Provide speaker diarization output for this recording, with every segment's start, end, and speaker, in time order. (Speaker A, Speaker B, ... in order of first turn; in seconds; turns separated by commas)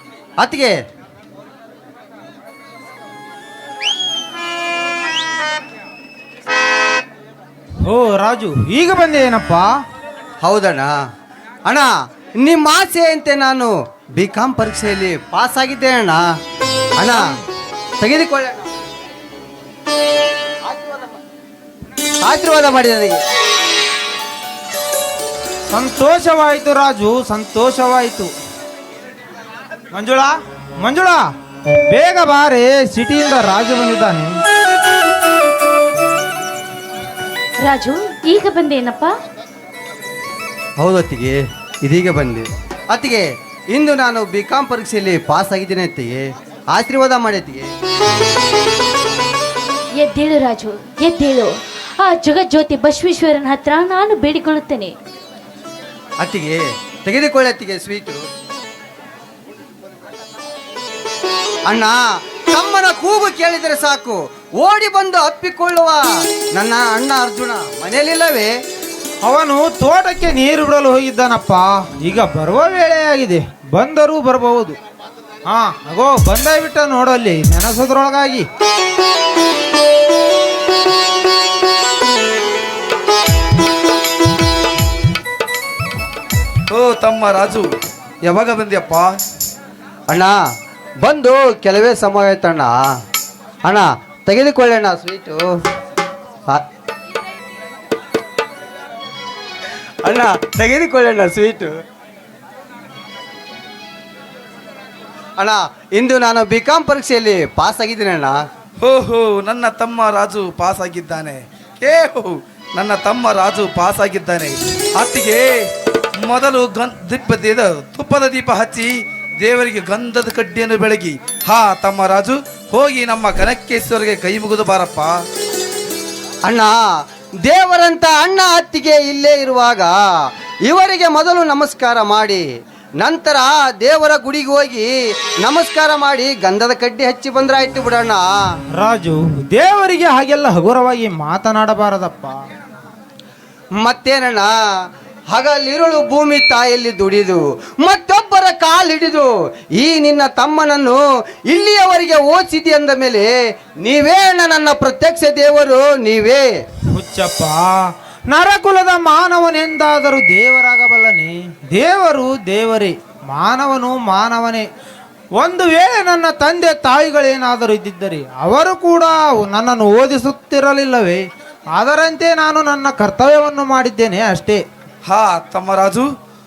Speaker A: 0.4-0.8, Speaker B: 7.8-9.7, Speaker A: 10.4-10.9, Speaker A: 11.7-16.2, Speaker A: 18.0-18.7, Speaker A: 20.6-21.1, Speaker A: 22.2-23.2, Speaker B: 25.7-28.3, Speaker B: 29.9-31.2, Speaker B: 31.9-34.4, Speaker C: 37.6-39.1, Speaker A: 40.8-47.7, Speaker C: 50.0-51.5, Speaker C: 52.0-54.9, Speaker A: 56.2-58.2, Speaker A: 61.7-68.5, Speaker B: 69.2-74.8, Speaker B: 75.5-78.5, Speaker D: 86.7-87.7, Speaker D: 88.3-89.1, Speaker A: 90.1-90.3, Speaker A: 91.0-92.7, Speaker A: 93.6-95.5, Speaker A: 100.0-101.7, Speaker A: 105.4-108.4, Speaker D: 108.8-115.5, Speaker D: 116.2-118.9, Speaker D: 119.4-125.1, Speaker A: 126.5-132.4, Speaker A: 133.0-134.9, Speaker A: 135.4-138.5, Speaker B: 138.8-142.4, Speaker A: 143.8-144.5, Speaker A: 145.3-156.4, Speaker B: 156.9-157.8, Speaker B: 158.3-164.7, Speaker B: 165.4-174.6, Speaker D: 175.1-176.1